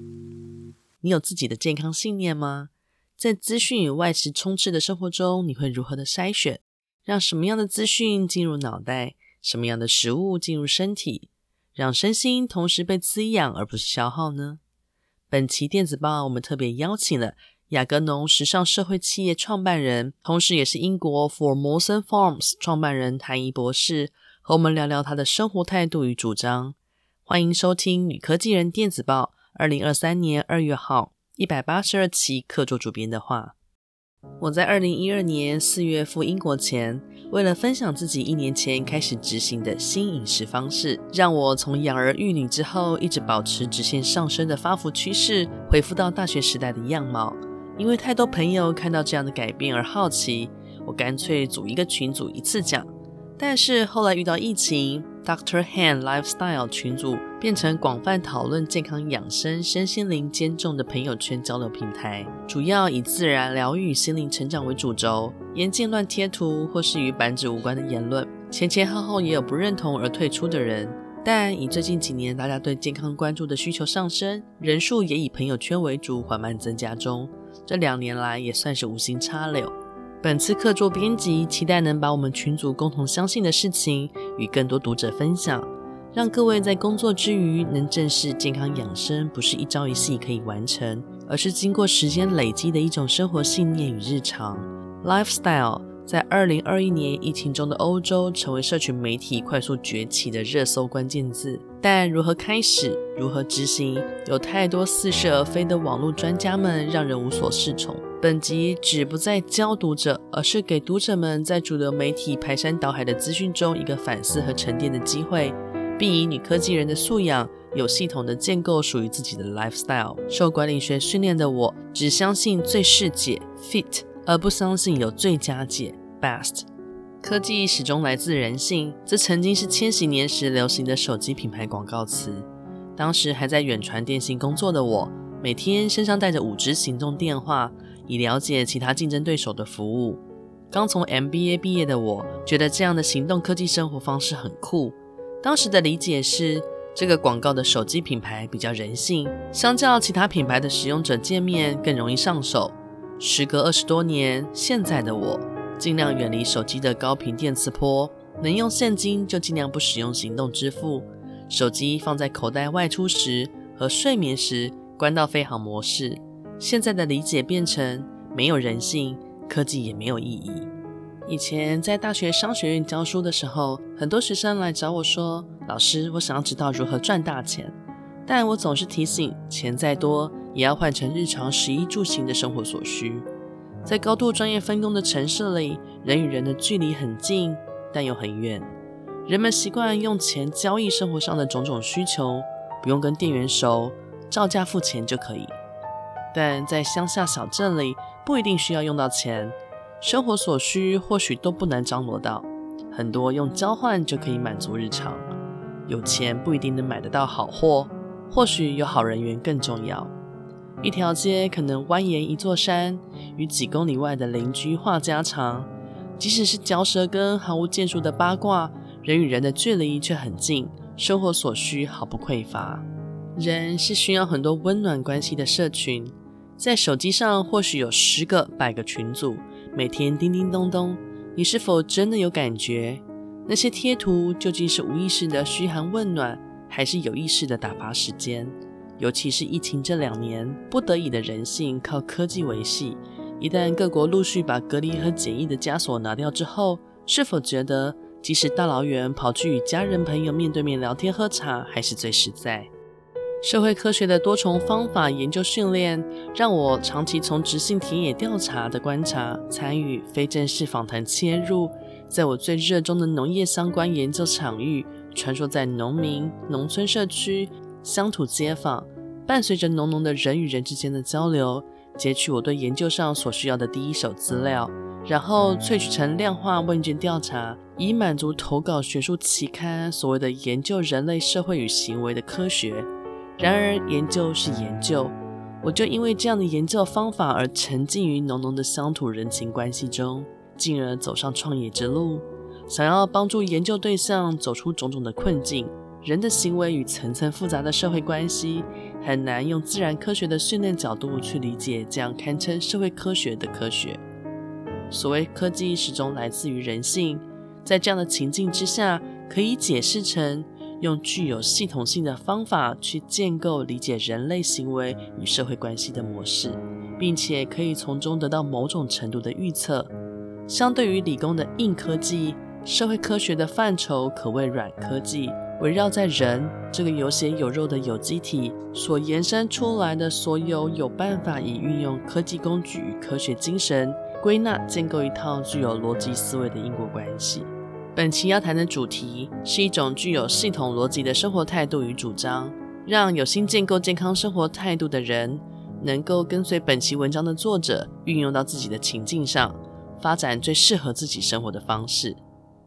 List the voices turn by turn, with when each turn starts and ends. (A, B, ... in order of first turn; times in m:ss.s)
0:01.0-0:14.6 A
0:15.3-0:33.6 A
0:34.4-2:06.7 A
2:07.2-2:20.2 A
2:20.7-2:50.7 A
2:51.3-2:57.7 A
2:58.3-3:03.3 A
3:03.8-3:08.7 A
3:09.3-3:15.5 A
3:16.3-3:25.3 A
3:25.9-3:30.1 A
3:30.8-3:42.8 A
3:43.4-4:12.7 A
4:13.4-5:04.0 A
5:04.9-5:19.9 A
5:20.5-5:52.2 A